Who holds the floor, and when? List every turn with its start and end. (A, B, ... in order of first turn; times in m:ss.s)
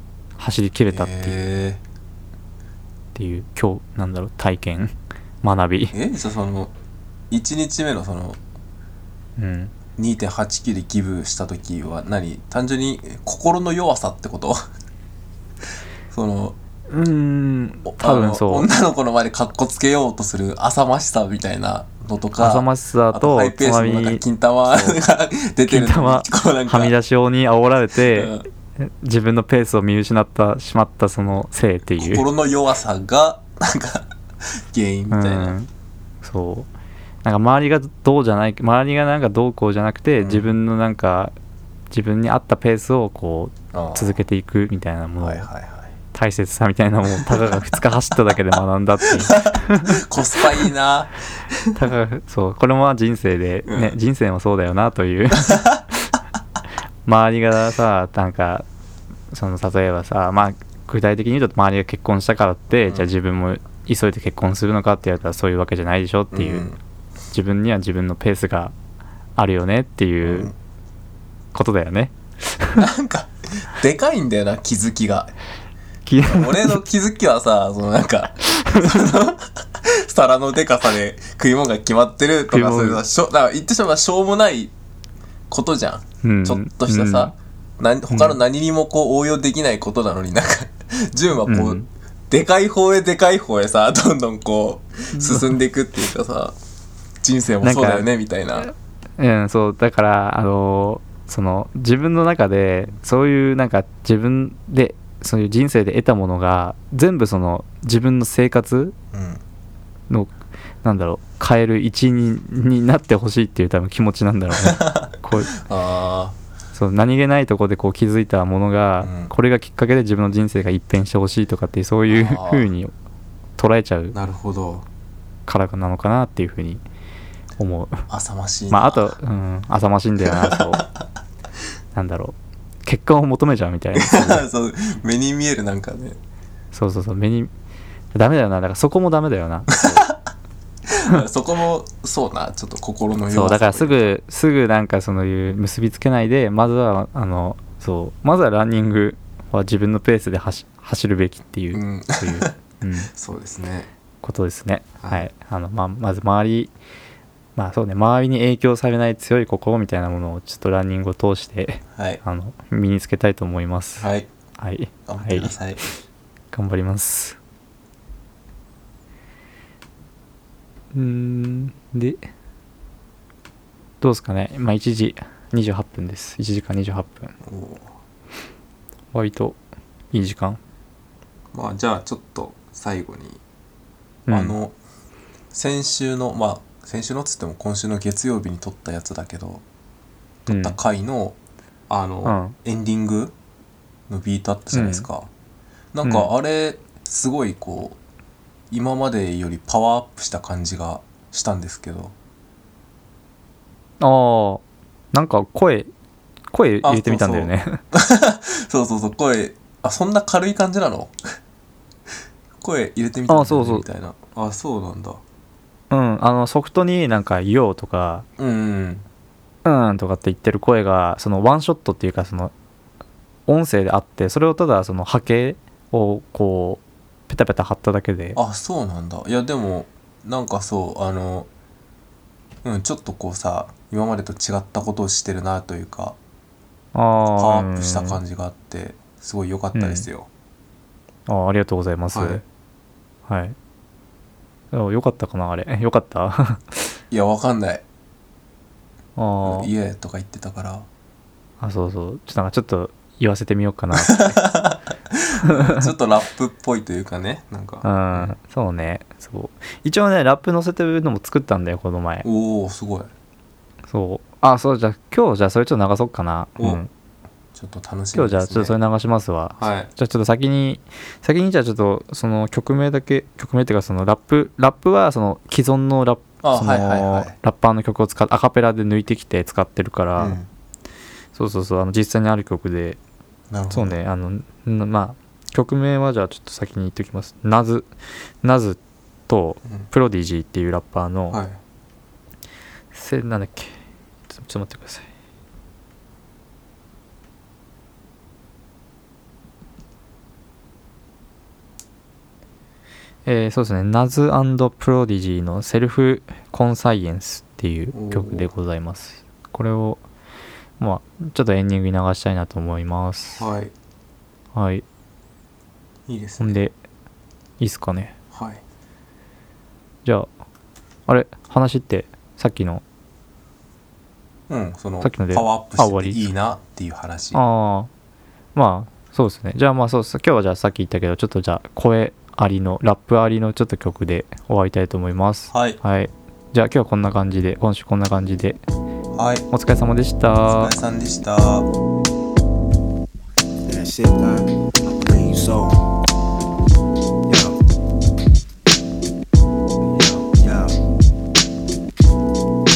0:00.4-0:01.4 A
0:00.9-0:01.8 B
0:03.1-0:06.0 A
0:05.9-0:06.7 B
0:07.3-0:08.4 B
0:09.4-0:09.7 A
0:10.0-0:14.6 B
0:16.1-0:16.6 B
0:16.9-0:18.7 A
0:17.8-0:26.9 B
0:22.4-0:25.0 A
0:25.6-0:32.2 A
0:28.1-0:28.4 B
0:32.0-0:35.5 B
0:35.1-0:35.7 A
0:36.2-0:36.7 A
0:37.2-0:41.3 A
0:40.2-0:40.5 B
0:41.9-0:45.5 A
0:43.7-0:44.2 B
0:45.2-0:45.9 B
0:46.1-0:50.0 A
0:49.2-0:51.7 B
0:51.7-0:56.1 A
0:53.7-0:53.9 B
0:55.5-0:55.8 B
0:57.0-0:58.6 A
0:59.3-1:06.7 A
1:06.3-1:06.8 B
1:07.3-1:08.7 A
1:09.4-1:10.5 A
1:10.2-1:10.5 B
1:11.5-1:12.8 A
1:12.8-1:15.3 B
1:16.0-1:16.8 A
1:16.2-1:24.7 B
1:18.5-1:19.0 A
1:22.5-1:23.0 A
1:25.5-1:36.6 B
1:26.2-1:27.3 A
1:28.1-1:28.4 A
1:31.5-1:31.8 A
1:35.2-1:35.4 A
1:37.2-1:38.7 B
1:37.6-1:38.1 A
1:38.6-1:48.9 A
1:49.1-1:49.4 B
1:50.1-1:55.5 A
1:54.5-1:56.4 B
1:56.7-2:02.9 A
1:59.0-1:59.3 B
2:02.1-2:02.7 B
2:03.6-2:04.2 A
2:04.1-2:04.8 B
2:05.5-2:06.8 A
2:07.6-2:08.0 A
2:08.1-2:09.1 B
2:08.7-2:10.8 A
2:10.2-2:10.9 B
2:11.9-2:14.4 A
2:13.9-2:16.2 B
2:16.7-2:17.5 A
2:18.1-2:20.0 A
2:20.9-2:24.1 B
2:23.3-2:33.1 A
2:31.7-2:32.5 B
2:33.1-2:33.9 B
2:34.2-2:36.7 A
2:35.0-2:35.3 B
2:37.6-2:44.1 A
2:41.9-2:42.2 B
2:44.0-2:44.3 B
2:44.6-2:45.5 A
2:45.0-2:45.8 B
2:46.5-2:47.4 A
2:50.9-2:52.2 A
2:54.0-2:57.3 A
2:57.4-2:57.9 B
2:59.1-2:59.6 A
3:00.1-3:00.6 A
3:01.5-3:03.4 B
3:04.3-3:04.5 A
3:04.3-3:04.7 B
3:05.5-3:09.6 B
3:10.5-3:10.8 A
3:10.5-3:11.4 B
3:11.9-3:13.3 B
3:12.2-3:12.5 A
3:14.1-3:15.3 B
3:14.7-3:15.1 A
3:15.9-3:18.0 B
3:16.0-3:16.3 A
3:18.7-3:22.1 B
3:24.0-3:24.6 A
3:25.1-3:25.9 A
3:26.5-3:27.8 A
3:26.8-3:31.2 B
3:32.6-3:35.2 B
3:33.3-3:33.8 A
3:35.9-3:38.2 A
3:38.4-3:39.0 B
3:39.6-3:42.5 A
3:43.5-3:48.4 A
3:48.3-3:51.5 B
3:52.6-3:56.2 B
3:56.9-3:58.2 A
3:57.3-4:00.3 B
3:59.7-4:00.0 A
4:01.3-4:02.4 A
4:02.1-4:02.4 B
4:03.3-4:03.6 A
4:04.7-4:06.9 A
4:07.1-4:07.8 B
4:09.2-4:09.7 A
4:09.4-4:10.9 B
4:11.6-4:14.4 A
4:13.9-4:18.3 B
4:17.8-4:22.3 A
4:22.2-4:23.1 B
4:23.9-4:26.9 A
4:27.5-4:28.7 B
4:28.1-4:40.4 A
4:29.6-4:29.9 B
4:36.4-4:37.3 B
4:40.2-4:40.5 B
4:41.3-4:43.0 A
4:43.5-4:44.0 B
4:43.7-4:47.9 A
4:48.4-4:51.4 A
4:51.3-4:51.6 B
4:52.9-4:53.8 A
4:54.3-4:55.1 A
5:03.2-5:10.0 A
5:07.9-5:08.5 B
5:10.8-5:13.4 A
5:13.4-5:13.7 B
5:14.5-5:14.8 A
5:16.1-5:16.6 B
5:16.4-5:16.7 A
5:17.6-5:18.1 A
5:18.3-5:18.6 B
5:21.1-5:22.8 A
5:24.5-5:27.4 B
5:25.0-5:26.2 A
5:27.3-5:27.9 A
5:28.5-5:38.6 A
5:35.5-5:35.8 B
5:39.1-5:39.4 B
5:39.5-5:40.8 A
5:40.4-5:41.6 B
5:43.6-5:45.8 C
5:47.3-5:47.5 C
5:49.9-5:50.7 C